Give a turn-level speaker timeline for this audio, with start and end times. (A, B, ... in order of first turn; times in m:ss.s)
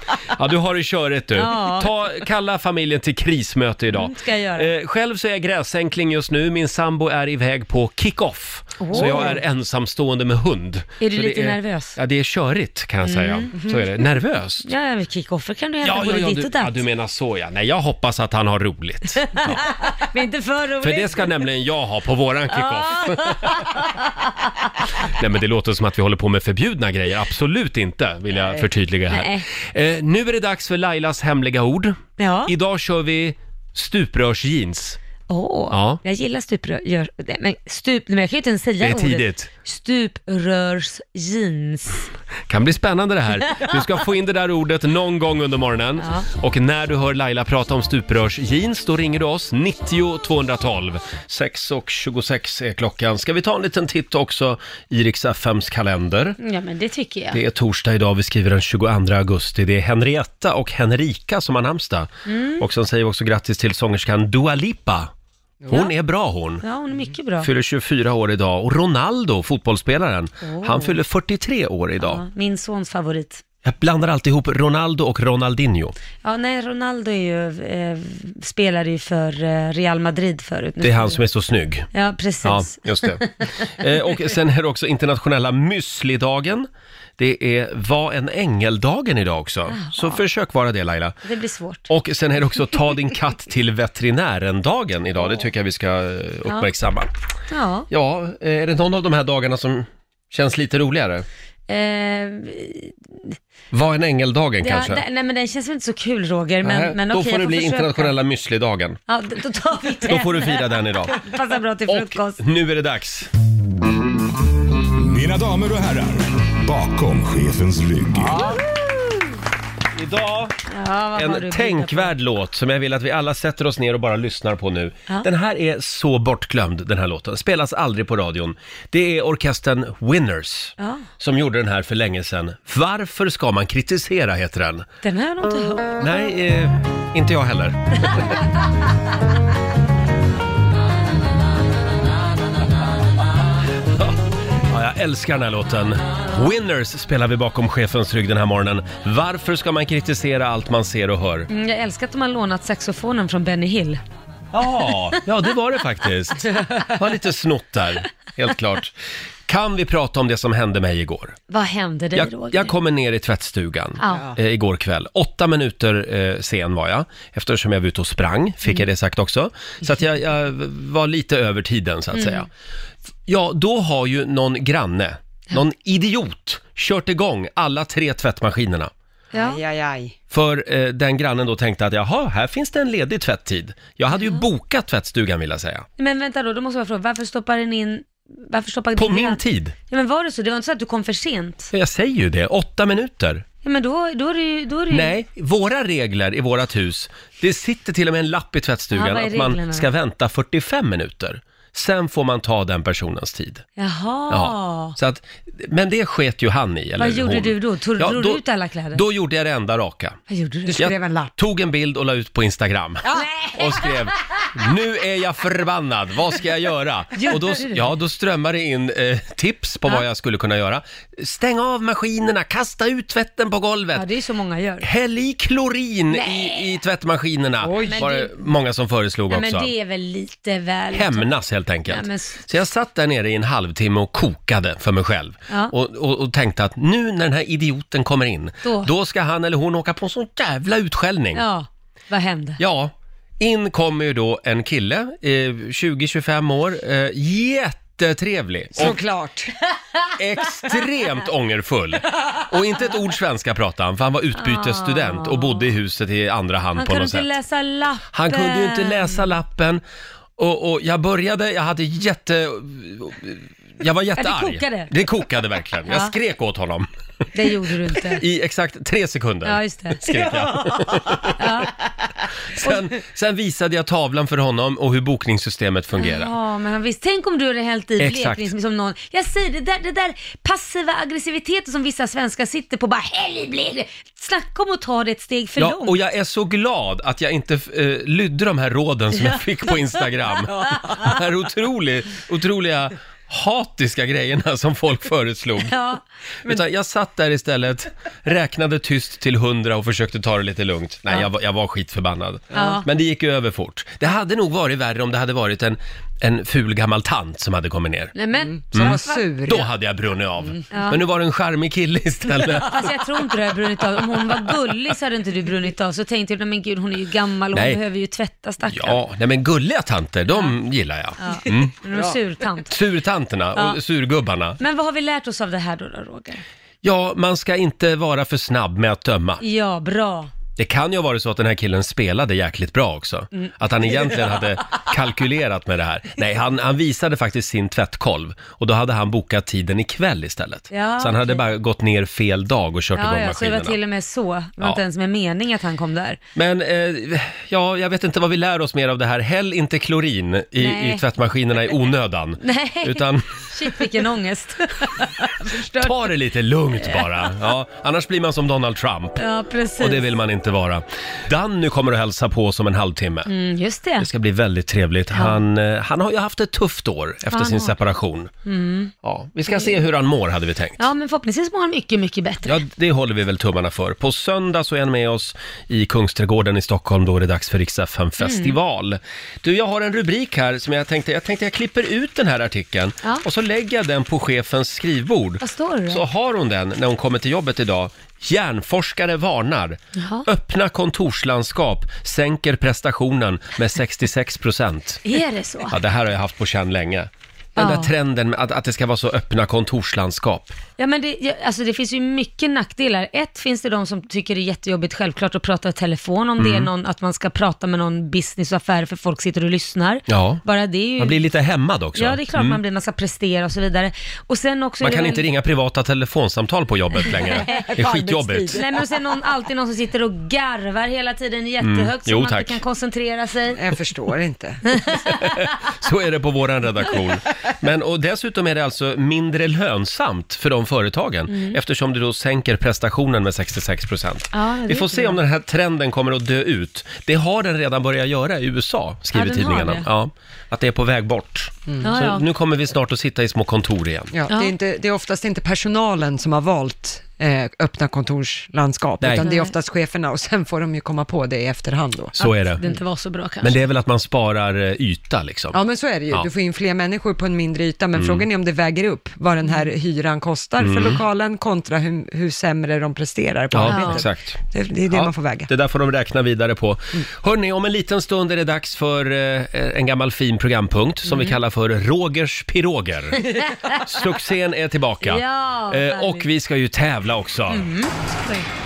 0:00.3-0:14.7 A
0:01.4-0:01.9 B
0:04.0-0:04.7 B
0:08.8-0:09.4 B
0:11.0-0:12.0 B
0:13.0-0:13.7 B
0:14.6-0:16.8 B
0:15.8-0:19.7 A
0:19.4-0:21.3 B
0:20.8-0:23.7 A
0:22.6-0:24.3 B
0:25.0-0:35.0 A
0:28.5-0:29.4 B
0:32.2-0:32.5 B
0:35.3-0:42.1 B
0:35.7-0:36.0 A
0:38.8-0:39.5 A
0:42.5-0:56.4 A
0:46.0-0:46.3 B
0:56.4-0:57.4 B
0:57.3-1:05.1 A
1:02.3-1:02.6 B
1:05.7-1:06.6 A
1:06.6-1:07.5 B
1:07.4-1:12.2 A
1:10.4-1:11.0 B
1:12.0-1:13.4 B
1:13.6-1:16.0 A
1:16.2-1:21.2 B
1:20.8-1:21.9 A
1:21.9-1:23.5 B
1:22.4-1:31.2 A
1:29.7-1:30.2 B
1:31.2-1:31.9 B
1:31.9-1:37.1 A
1:37.5-1:37.9 B
1:37.9-1:41.3 A
1:41.7-1:43.3 B
1:43.7-1:45.0 A
1:44.6-1:48.1 B
1:46.6-1:49.0 A
1:49.1-1:52.4 B
1:50.1-1:51.2 A
1:51.9-1:53.3 A
1:55.0-1:58.4 C
1:58.3-1:58.8 A
2:00.0-2:00.6 A
2:00.7-2:02.1 B
2:01.2-2:14.9 A
2:10.8-2:11.0 B
2:15.0-2:16.0 B
2:16.0-2:18.3 A
2:24.7-2:31.5 A
2:31.5-2:34.0 B
2:34.5-2:38.9 A
2:39.5-2:41.4 A
2:41.5-2:42.8 B
2:42.2-2:52.5 A
2:44.0-2:44.3 B
2:52.2-2:52.4 B
2:53.2-2:58.9 A
2:59.3-2:59.6 B
2:59.3-3:00.2 D
3:00.3-3:05.9 A
3:06.0-3:11.7 B
3:09.0-3:09.8 A
3:11.7-3:13.4 A
3:13.6-3:15.2 B
3:14.9-3:23.6 A
3:18.9-3:19.9 B
3:23.8-3:25.0 B
3:24.3-3:30.2 A
3:27.0-3:29.0 B
3:30.3-3:30.8 B
3:30.7-3:31.3 D
3:30.8-3:44.1 A
3:33.1-3:34.4 B
3:37.2-3:37.9 B
3:43.9-3:44.9 B
3:44.8-3:49.7 A
3:46.1-3:46.8 B
3:47.6-3:48.1 D
3:47.9-3:48.3 B
3:49.3-3:51.3 B
3:50.9-4:01.4 A
3:51.9-3:52.4 B
3:58.6-3:58.9 B
4:01.4-4:02.6 B
4:02.6-4:09.0 A
4:08.8-4:09.5 D
4:10.2-4:17.3 A
4:14.4-4:15.7 B
4:16.8-4:19.2 B
4:18.1-4:19.8 A
4:20.4-4:26.9 A
4:24.2-4:24.9 B
4:27.3-4:28.2 B
4:28.2-4:31.4 A
4:29.4-4:30.1 B
4:31.4-4:31.8 B
4:32.5-4:36.3 A
4:36.0-4:46.0 B
4:38.0-4:38.5 A
4:45.6-4:55.7 A
4:49.1-4:51.1 B
4:55.7-4:56.0 B
4:56.4-5:08.1 A
5:02.5-5:02.8 D
5:02.5-5:02.9 B
5:08.2-5:09.2 B
5:08.3-5:09.7 D
5:08.7-5:13.0 A
5:10.7-5:11.0 B
5:12.5-5:19.0 B
5:17.5-5:17.8 A
5:18.7-5:21.8 A
5:21.2-5:22.7 B
5:22.7-5:24.6 A
5:24.6-5:26.4 B
5:26.8-5:29.4 A
5:29.4-5:30.3 B
5:30.6-5:43.8 A
5:33.3-5:34.4 B
5:40.7-5:41.5 B
5:42.9-5:46.2 B
5:46.4-5:53.5 A
5:50.6-5:51.0 B
5:52.4-5:56.2 B
5:55.8-5:59.2 A
5:56.8-5:57.3 B
5:59.2-6:00.1 B
5:59.8-6:03.3 A
6:03.3-6:04.1 B
6:04.0-6:08.3 A
6:05.1-6:05.4 B
6:07.3-6:07.8 B
6:08.4-6:08.9 B
6:09.0-6:10.9 A
6:10.8-6:12.6 B
6:12.5-6:35.0 A
6:18.2-6:18.6 B
6:25.4-6:26.0 B
6:30.0-6:30.3 B
6:35.0-6:35.8 B
6:35.7-6:40.5 A
6:37.6-6:37.9 B
6:40.8-6:51.2 B
6:46.4-6:46.7 A
6:50.1-6:50.4 A
6:51.0-6:52.6 A
6:52.0-6:55.2 B
6:54.8-6:58.6 A
6:57.3-6:58.8 D
6:57.4-6:57.6 B
6:58.5-7:03.6 B
7:01.6-7:02.6 A
7:03.5-7:04.6 D
7:04.7-7:05.1 B
7:05.1-7:24.1 A
7:11.3-7:11.6 B
7:14.3-7:15.2 B
7:19.1-7:19.9 B
7:21.8-7:22.3 B
7:24.1-7:32.1 D
7:24.3-7:24.5 B
7:29.2-7:29.5 B
7:32.2-7:32.6 A
7:32.2-7:33.6 B
7:33.4-7:35.6 A
7:35.5-7:45.5 D
7:38.0-7:38.2 A
7:40.6-7:41.0 A
7:43.5-7:44.4 A
7:43.7-7:44.0 B
7:44.9-7:57.6 A
7:51.1-7:51.4 B
7:53.3-7:53.8 B
7:55.0-7:56.3 B
7:57.5-7:58.5 B